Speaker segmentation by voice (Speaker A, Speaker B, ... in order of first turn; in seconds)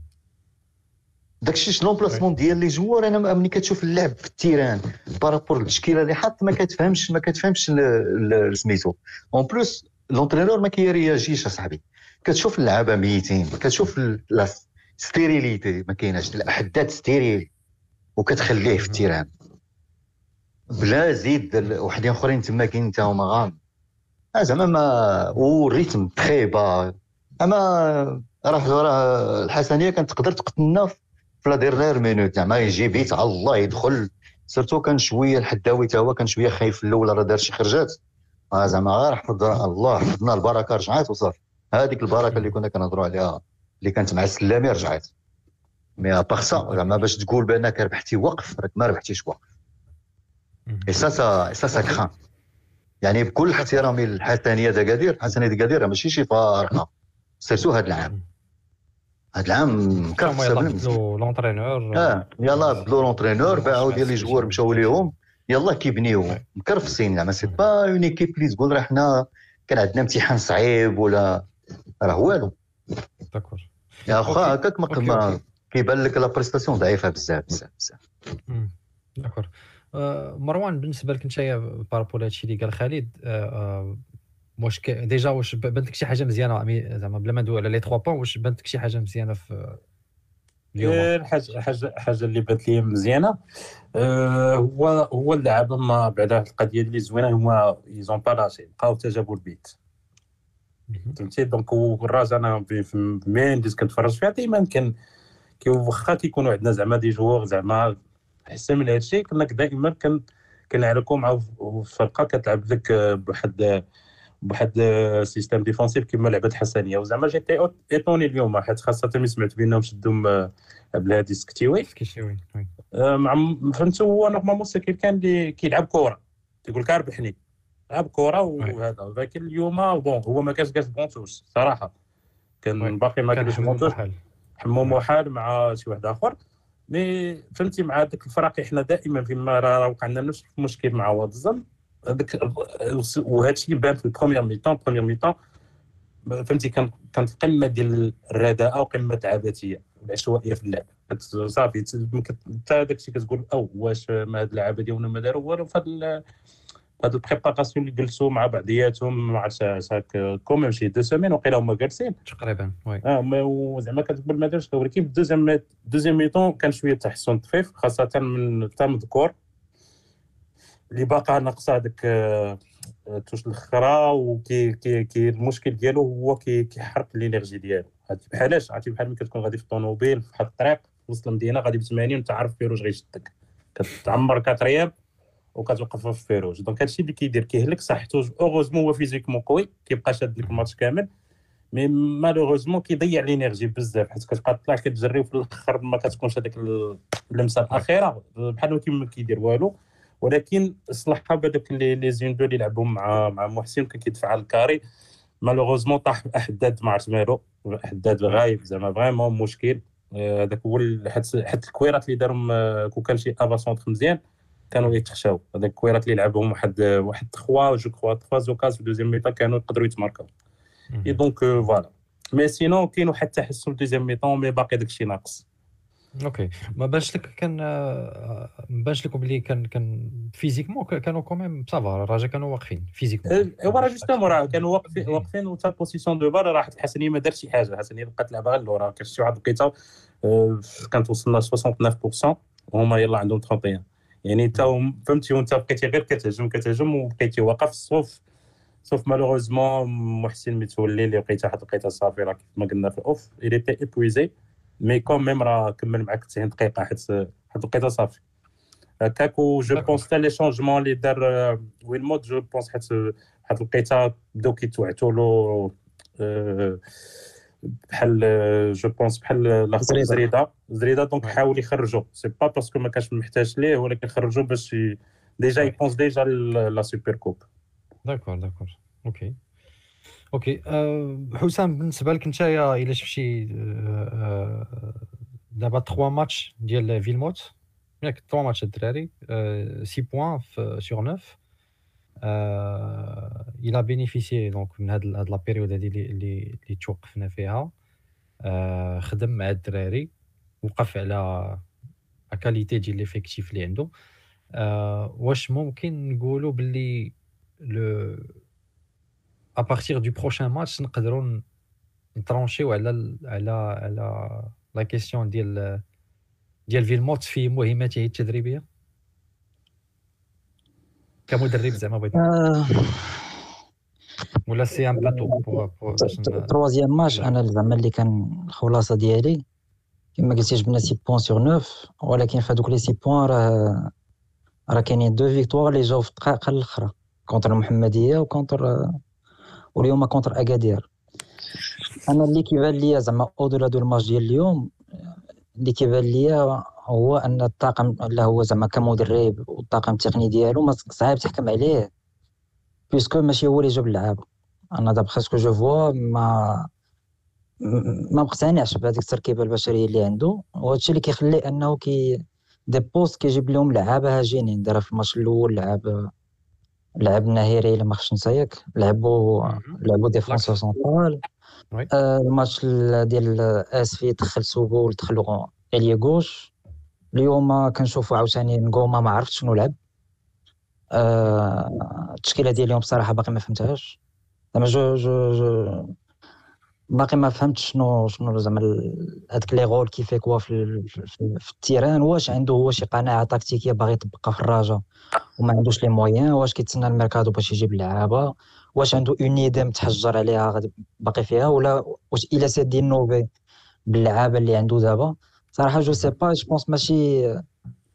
Speaker A: 1.4-17.5, 18.2-19.3, 20.7-23.6, 24.4-38.0, 38.5-45.1, 46.0-49.4, 50.9-52.1, 53.0-56.9, 57.4-58.1, 59.3-61.0, 61.9-71.5, 72.0-72.5, 74.1-78.0
Speaker B: 50.7-50.9, 60.2-65.1, 73.3-75.4, 78.5-84.0, 84.6-89.8, 90.7-91.1, 100.9-101.2, 121.9-122.7, 132.8-134.2, 162.2-163.0, 226.2-235.3, 278.0-279.4, 280.3-285.0, 285.5-291.4, 292.2-297.7, 298.4-300.1, 300.6-301.6, 302.3-303.9, 304.6-308.3, 309.6-311.4, 312.1-315.8, 316.7-318.6, 321.3-322.2, 324.5-326.5, 369.4-370.5
Speaker C: 90.8-93.3, 94.0-99.7, 101.2-104.9, 105.6-107.9, 108.5-110.2, 110.7-113.8, 114.4-121.9, 122.9-127.3, 127.9-131.9, 132.6-133.9, 134.6-136.3, 136.9-145.3, 146.3-156.2, 157.0-162.2, 163.0-169.3, 170.9-172.6, 173.1-184.9, 185.6-191.1, 191.7-204.8, 205.4-214.2, 214.7-220.3, 221.1-225.4, 233.3-239.7, 240.2-248.2, 248.8-254.3, 254.8-258.2, 259.0-266.8, 267.9-277.4
Speaker D: 269.8-270.2, 322.1-323.3, 325.0-329.4, 330.2-333.9, 334.7-338.9, 339.8-340.9, 342.0-344.7, 345.6-351.9, 352.9-356.7, 357.6-366.1, 367.0-371.2, 371.9-376.5, 377.1-379.7, 380.9-384.0, 384.5-385.9, 386.9-394.8, 395.4-403.3, 403.9-407.4